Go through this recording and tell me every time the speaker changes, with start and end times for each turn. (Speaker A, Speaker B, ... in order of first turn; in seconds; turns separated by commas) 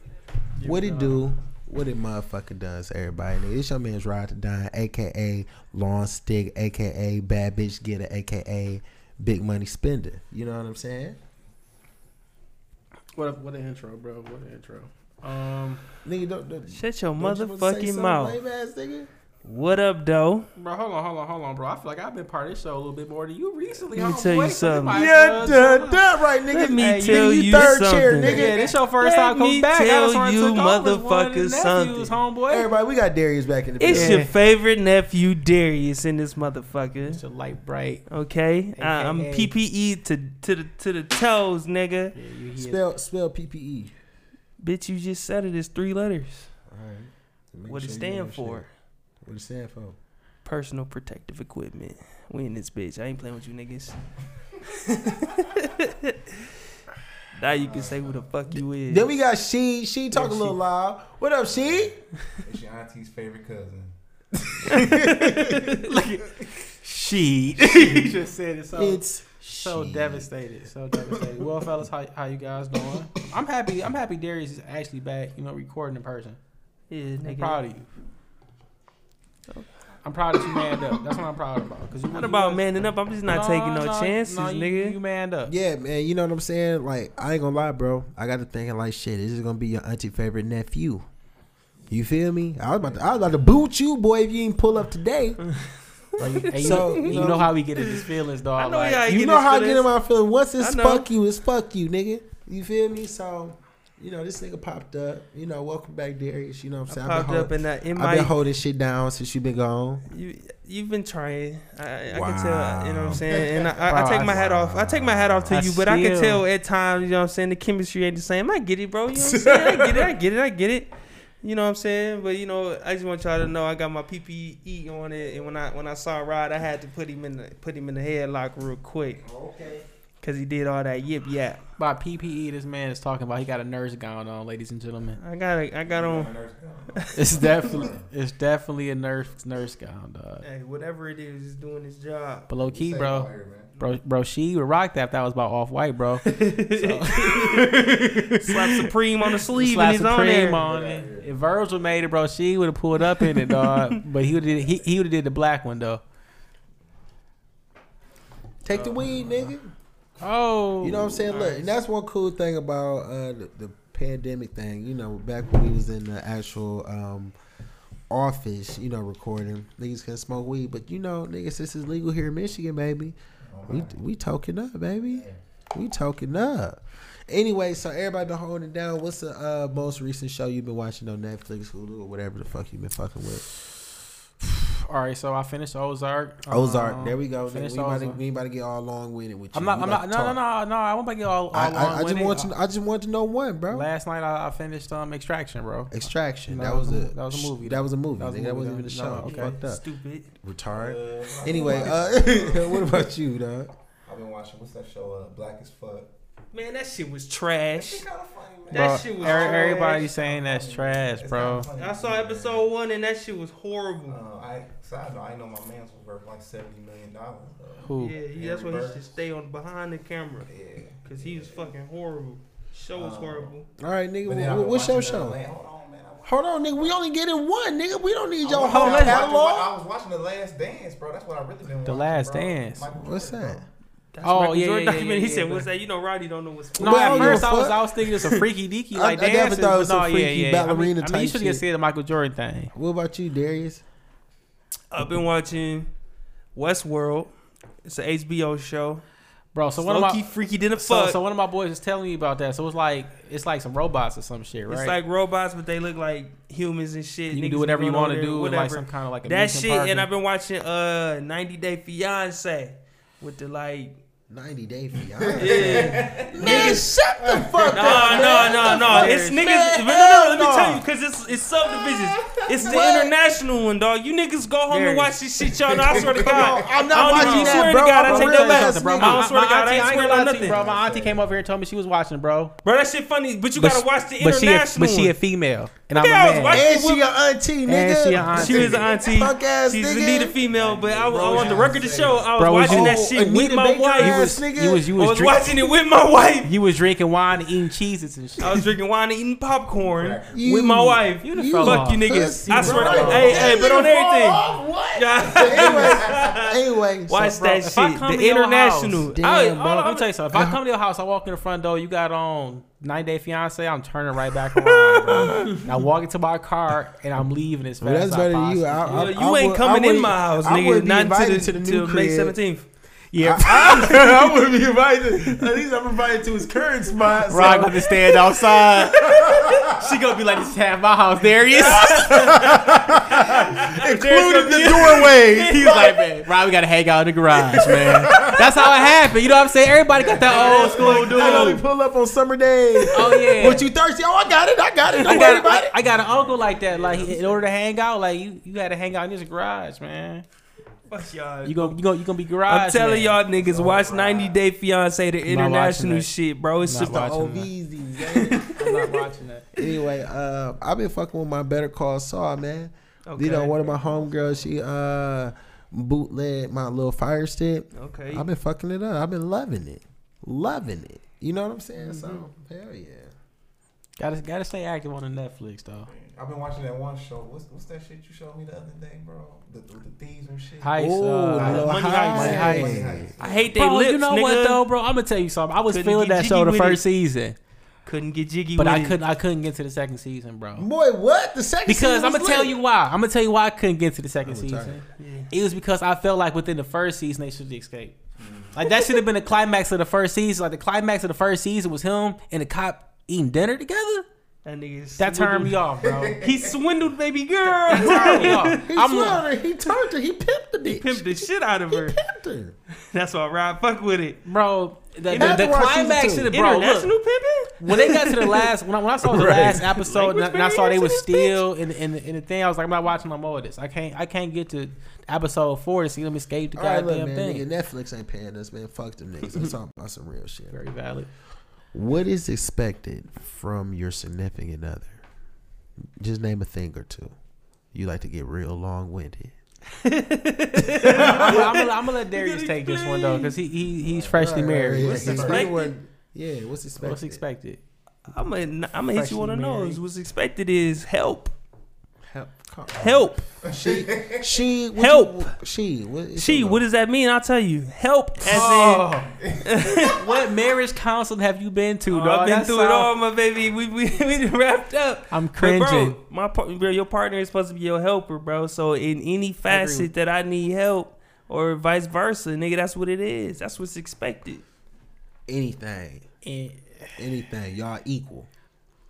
Speaker A: 0.6-1.2, Speaker B: 0.6-11.2, Speaker A: 13.2-15.8, Speaker B: 16.0-19.1, Speaker C: 16.7-18.4, Speaker C: 19.4-20.5, Speaker A: 20.6-26.0, Speaker C: 23.9-25.1, Speaker B: 24.9-28.7, Speaker C: 26.5-32.1, Speaker A: 28.2-32.7, Speaker D: 28.2-28.8, Speaker B: 32.5-34.3, Speaker C: 33.8-37.2, Speaker A: 33.9-34.3, Speaker A: 37.1-38.0, Speaker C: 38.1-42.2, Speaker A: 38.8-39.5, Speaker A: 42.1-42.8, Speaker B: 42.6-43.9, Speaker C: 44.6-46.5, Speaker B: 46.7-48.6, Speaker C: 47.7-48.7, Speaker B: 49.2-50.0, Speaker C: 50.4-54.0, Speaker C: 54.7-56.2, Speaker C: 57.4-59.1, Speaker D: 57.5-58.3, Speaker B: 58.9-61.9, Speaker A: 60.1-60.5, Speaker D: 61.4-63.9, Speaker A: 64.6-69.0, Speaker C: 64.7-65.9, Speaker B: 68.8-70.3, Speaker A: 69.5-76.4, Speaker C: 76.9-77.6, Speaker A: 77.2-77.9, Speaker A: 80.0-82.6, Speaker C: 82.2-85.0, Speaker A: 83.3-85.5, Speaker B: 85.5-91.1, Speaker B: 91.9-95.4, Speaker D: 92.8-93.5, Speaker B: 96.2-97.5, Speaker C: 96.2-99.9, Speaker A: 96.3-99.0, Speaker B: 99.1-110.1, Speaker C: 100.6-101.1, Speaker C: 106.9-108.3, Speaker C: 110.1-120.9, Speaker B: 112.1-113.3, Speaker D: 113.3-113.8, Speaker B: 113.9-115.5, Speaker A: 113.9-114.4, Speaker A: 115.5-116.4, Speaker B: 119.2-120.1, Speaker C: 121.4-129.2, Speaker D: 129.3-129.8, Speaker C: 130.2-131.6, Speaker A: 131.8-135.2, Speaker C: 135.2-136.3, Speaker D: 135.9-138.1, Speaker C: 137.0-137.7, Speaker A: 137.2-140.4, Speaker C: 140.4-142.5, Speaker A: 142.5-148.9, Speaker D: 142.7-143.8, Speaker C: 146.2-150.6, Speaker A: 149.4-156.0, Speaker D: 150.5-151.5, Speaker C: 153.5-154.0, Speaker B: 158.6-159.7, Speaker C: 158.7-159.1, Speaker A: 160.2-161.4, Speaker B: 160.8-167.3, Speaker C: 161.3-161.7, Speaker B: 168.1-173.2, Speaker D: 173.4-174.0, Speaker B: 173.7-183.4, Speaker D: 175.1-175.4, Speaker A: 184.4-188.2, Speaker B: 186.5-190.4, Speaker A: 189.5-192.5, Speaker B: 191.5-193.9, Speaker A: 193.7-195.9, Speaker B: 195.9-199.8, Speaker A: 196.5-199.6, Speaker C: 199.2-200.3, Speaker B: 200.4-203.7, Speaker D: 200.7-203.1, Speaker D: 204.1-206.1, Speaker C: 206.5-208.0, Speaker D: 207.8-212.7, Speaker C: 208.7-210.1, Speaker A: 208.7-211.7, Speaker C: 211.8-214.2, Speaker D: 214.1-219.1, Speaker A: 217.8-218.2, Speaker C: 218.0-220.5, Speaker D: 220.5-221.7, Speaker C: 221.1-223.7, Speaker D: 222.9-223.5, Speaker B: 223.8-225.4, Speaker D: 224.2-226.9, Speaker B: 226.2-229.7, Speaker D: 228.4-233.7, Speaker A: 228.5-229.2, Speaker A: 231.8-232.9, Speaker B: 232.9-233.6, Speaker C: 234.1-237.5, Speaker A: 234.2-235.7, Speaker B: 236.8-241.6, Speaker A: 236.8-242.7, Speaker B: 242.7-243.8, Speaker C: 244.9-245.9, Speaker C: 246.6-247.3, Speaker C: 247.8-249.0, Speaker A: 249.5-250.2, Speaker C: 249.8-251.2, Speaker A: 250.8-255.0, Speaker C: 254.7-264.0, Speaker A: 257.3-260.1, Speaker B: 264.3-270.9, Speaker D: 265.2-268.3, Speaker C: 265.4-266.9, Speaker C: 267.7-280.6, Speaker A: 267.8-269.4, Speaker D: 271.8-272.9, Speaker B: 272.6-273.1, Speaker A: 274.7-275.1, Speaker D: 275.5-277.0, Speaker B: 275.9-279.3, Speaker A: 277.0-282.5, Speaker D: 279.8-281.3, Speaker C: 282.6-285.2, Speaker A: 283.6-286.7, Speaker C: 285.9-287.1, Speaker B: 286.5-290.4, Speaker A: 287.7-288.8, Speaker C: 288.3-294.3, Speaker D: 290.2-292.4, Speaker B: 291.1-291.7, Speaker A: 292.4-293.2, Speaker B: 292.6-294.9, Speaker A: 294.0-295.7, Speaker C: 295.0-296.5, Speaker A: 296.4-298.7, Speaker C: 298.4-310.1, Speaker D: 299.8-300.4, Speaker B: 300.3-307.3, Speaker A: 301.2-303.4, Speaker D: 302.6-303.7, Speaker D: 305.2-306.4, Speaker A: 307.2-309.1, Speaker B: 309.0-310.6, Speaker A: 309.8-319.1, Speaker B: 315.3-315.7, Speaker B: 317.8-322.4, Speaker C: 318.9-322.7, Speaker A: 323.1-324.3, Speaker B: 323.2-329.9, Speaker A: 327.3-341.6, Speaker B: 331.6-336.0, Speaker B: 337.5-338.6, Speaker D: 339.9-341.4, Speaker C: 340.2-341.6, Speaker B: 340.2-345.8, Speaker C: 342.8-343.2, Speaker A: 342.9-343.7, Speaker C: 345.0-345.5, Speaker A: 345.0-350.2, Speaker D: 345.8-347.2, Speaker C: 350.9-351.8, Speaker A: 351.4-353.2, Speaker C: 352.5-357.0, Speaker D: 353.3-354.4, Speaker A: 355.3-356.1, Speaker A: 356.6-357.5, Speaker B: 356.7-358.6, Speaker C: 358.1-358.5, Speaker D: 358.4-359.4, Speaker A: 358.6-359.4, Speaker B: 359.5-373.1, Speaker C: 363.1-363.8, Speaker D: 363.8-364.5, Speaker C: 367.8-368.3, Speaker A: 371.9-372.2, Speaker A: 374.0-375.9, Speaker D: 375.9-383.6, Speaker A: 380.6-382.9, Speaker B: 380.8-383.1, Speaker C: 381.4-384.6, Speaker A: 383.5-387.4, Speaker C: 385.7-386.8, Speaker C: 387.9-389.0, Speaker A: 388.6-390.7, Speaker B: 390.6-392.6, Speaker A: 391.7-398.0, Speaker B: 394.2-394.8, Speaker C: 395.0-395.3, Speaker D: 398.2-398.6, Speaker A: 398.5-404.1, Speaker C: 404.4-408.6, Speaker A: 405.0-406.2, Speaker D: 405.8-406.6, Speaker A: 407.7-409.3, Speaker B: 407.7-412.5, Speaker C: 410.6-412.0, Speaker C: 412.9-414.2, Speaker A: 414.2-416.9, Speaker B: 415.1-416.3, Speaker C: 415.1-415.4, Speaker C: 416.3-418.5, Speaker A: 417.6-427.4, Speaker B: 419.0-419.7, Speaker C: 419.7-421.4, Speaker B: 426.6-430.6, Speaker A: 430.5-431.1, Speaker B: 431.7-435.0, Speaker B: 436.0-437.1, Speaker B: 437.7-439.3, Speaker C: 439.8-443.4, Speaker B: 440.6-441.5, Speaker A: 440.8-445.3, Speaker B: 443.8-447.2, Speaker C: 444.8-445.7, Speaker D: 444.9-445.5, Speaker A: 446.8-447.6, Speaker C: 448.1-451.3, Speaker A: 448.9-449.8, Speaker B: 452.1-456.6, Speaker C: 452.8-453.2, Speaker D: 453.4-454.3, Speaker C: 454.8-455.3, Speaker C: 456.2-458.9, Speaker A: 458.2-459.1, Speaker D: 459.2-460.0, Speaker C: 459.4-460.0, Speaker A: 459.8-462.9, Speaker C: 461.9-474.4, Speaker A: 465.1-466.0, Speaker A: 469.5-469.9, Speaker B: 475.3-476.1, Speaker A: 476.2-476.9, Speaker B: 477.0-478.3